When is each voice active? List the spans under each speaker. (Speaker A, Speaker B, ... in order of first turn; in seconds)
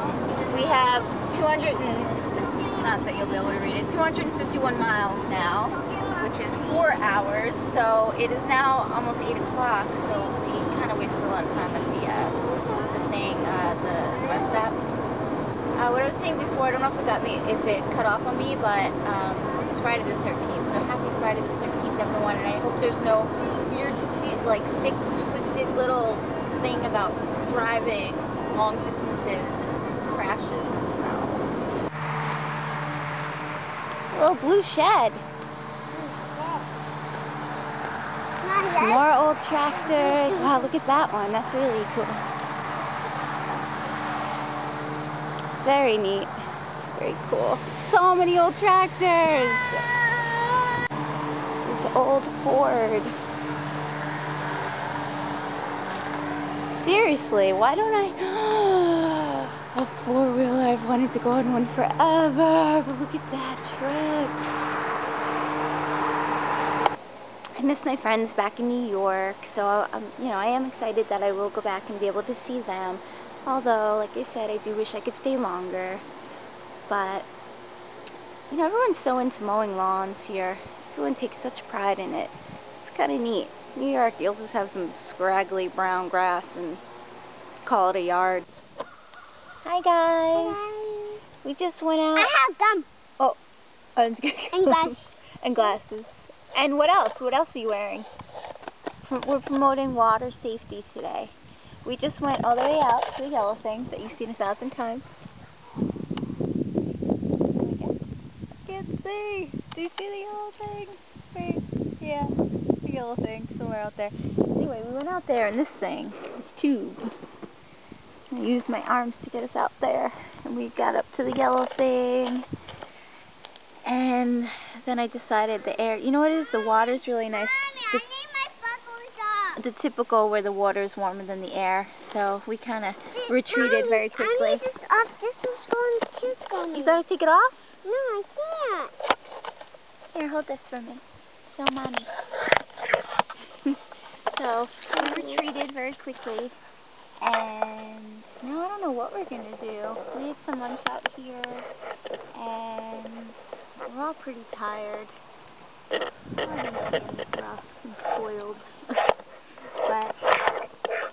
Speaker A: 0.4-14.8, 15.8-31.5, 34.1-35.2, 38.8-42.2, 45.5-46.3, 46.9-49.8, 51.6-53.1, 56.7-64.4, 67.6-76.0, 76.9-77.3, 78.5-86.8, 87.6-88.5, 89.6-90.6, 91.4-92.3, 94.0-98.1, 99.0-105.2, 107.6-107.9, 108.7-117.1, 118.3-122.5, 123.8-128.1, 129.6-134.7, 136.7-137.7, 140.1-142.1, 144.3-146.5, 147.2-151.7, 152.3-155.1, 156.4-158.8, 159.8-160.2
Speaker B: 35.9-36.7, 38.4-39.0, 39.7-40.7, 90.3-91.2, 92.2-92.9, 94.5-95.0, 127.3-129.6, 133.3-137.0, 137.8-138.9, 144.9-145.4